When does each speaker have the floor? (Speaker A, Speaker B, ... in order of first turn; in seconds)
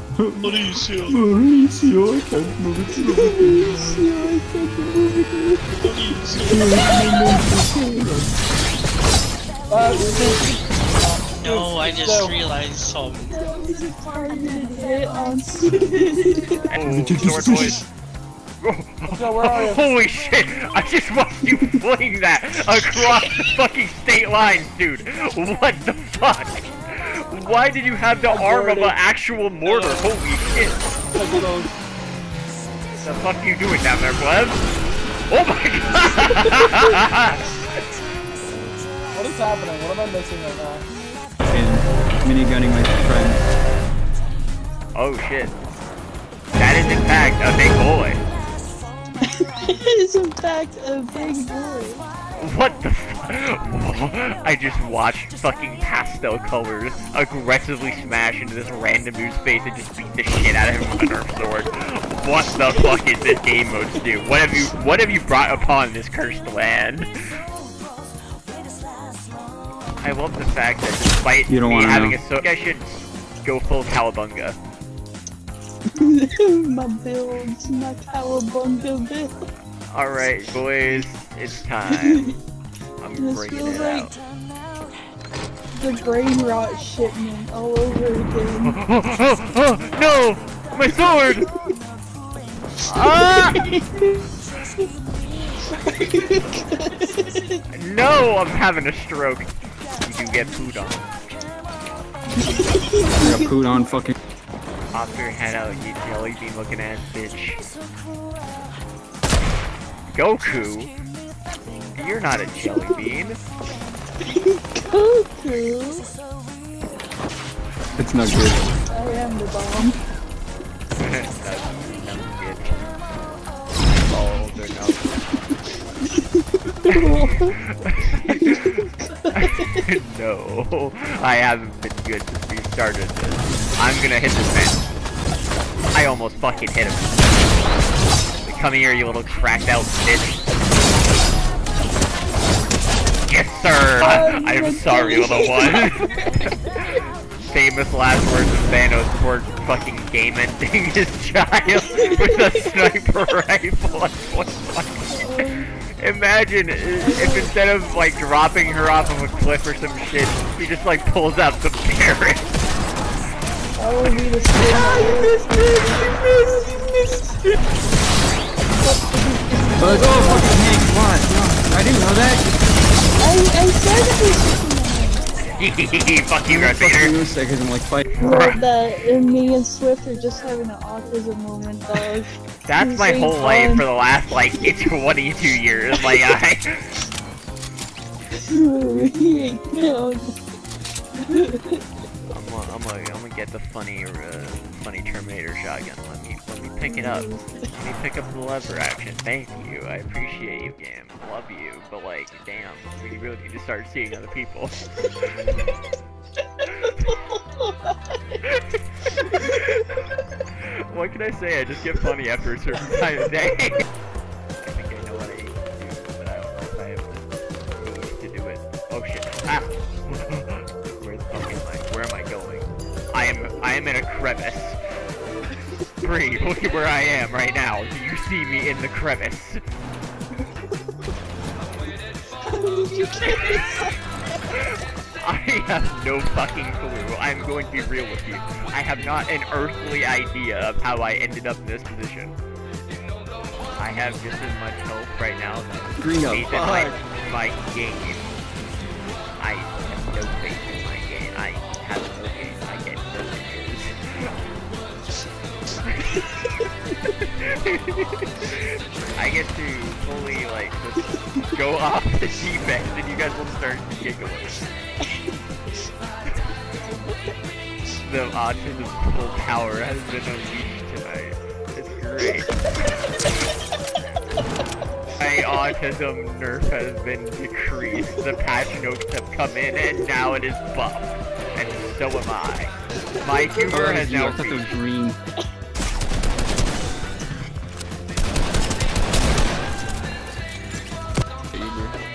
Speaker A: 0.2-4.1, 6.4-8.3, 16.8-17.8, 41.4-43.4, 71.5-72.2, 103.2-104.1, 118.0-118.7, 164.6-167.5, 169.8-172.6, 176.5-178.1, 245.9-247.0, 283.7-285.2, 291.5-291.9
Speaker B: 0.4-1.1, 6.0-6.7, 9.7-12.4, 19.1-19.9, 28.2-29.0, 29.6-30.1, 31.1-31.7, 39.1-40.9
Speaker C: 0.7-1.1, 5.9-6.2, 11.4-13.4
Speaker D: 3.1-5.8, 6.6-8.0, 9.9-10.4, 13.3-16.5, 49.3-52.1, 76.0-79.3, 82.0-82.3, 83.2-84.1, 85.7-88.8, 92.9-94.8, 95.7-97.6, 102.3-103.5, 114.2-116.1, 118.9-120.0, 126.8-127.6, 128.1-129.8, 144.0-146.0, 151.8-152.7, 155.1-155.7, 157.0-157.5, 163.8-165.3, 168.8-170.6, 173.2-175.3, 178.2-183.8, 188.4-190.3, 191.2-191.8, 196.8-197.7, 207.1-207.9, 232.4-233.9
Speaker E: 16.7-17.8, 18.6-30.8, 33.0-34.6, 35.3-37.5, 44.9-45.6, 46.6-48.2, 52.4-67.2, 70.0-74.6, 79.9-82.3, 83.0-84.2, 88.6-91.5, 92.8-93.7, 97.7-99.5, 100.0-101.2, 104.9-107.7, 110.1-110.9, 111.9-113.4, 121.0-122.9, 123.9-125.1, 128.0-128.8, 129.3-134.9, 135.9-137.8, 138.4-140.6, 143.3-146.0, 147.5-155.2, 156.0-162.5, 175.5-177.2, 178.1-178.6, 182.7-186.8, 192.3-204.8, 205.3-205.7, 208.4-210.0, 210.9-213.8, 214.6-224.8, 226.0-229.6, 234.5-242.4, 243.8-248.3, 249.4-253.9, 255.8-256.2, 257.6-258.5, 259.2-264.6, 268.0-272.6, 275.2-284.8